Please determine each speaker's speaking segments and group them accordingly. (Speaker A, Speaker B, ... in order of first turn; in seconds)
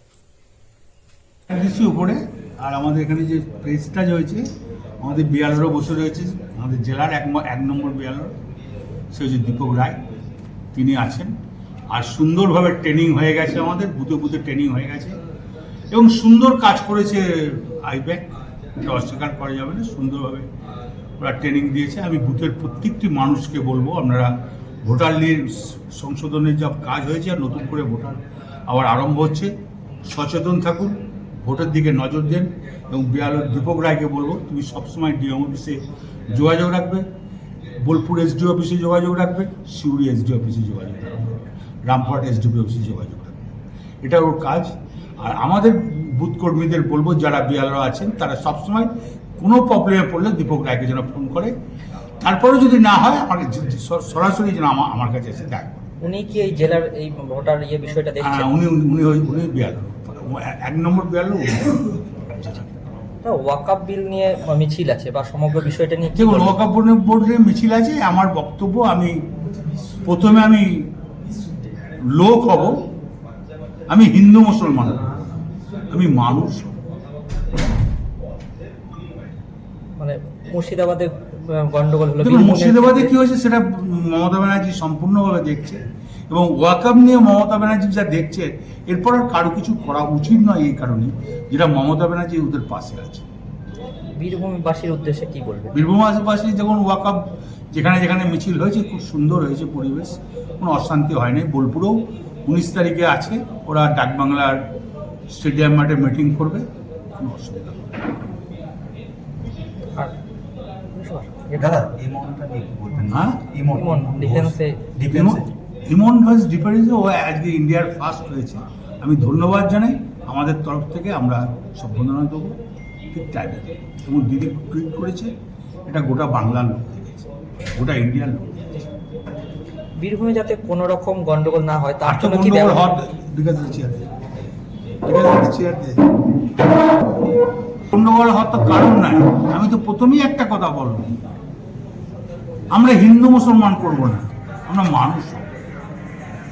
Speaker A: 1.5-4.5, 5.0-8.3, 9.1-10.0, 10.7-11.3, 11.9-15.2, 15.9-18.2, 18.8-20.5, 21.2-24.3, 24.8-29.5, 30.1-37.0, 37.8-43.5, 44.0-51.5, 52.2-55.8, 58.2-62.7, 66.1-69.2, 70.0-70.9, 72.1-72.8, 73.9-75.2, 75.9-76.7, 82.2-93.2, 95.7-104.6, 105.3-106.7, 107.2-107.9, 113.1-113.5, 115.1-122.6, 123.1-125.3, 125.9-128.8, 132.0-134.1, 135.0-136.1, 137.9-141.2, 142.7-145.5
Speaker B: 56.0-58.5, 63.2-66.6, 80.0-83.1, 94.2-95.7, 110.9-111.7, 113.7-114.8, 130.0-132.9
Speaker C: 111.6-115.5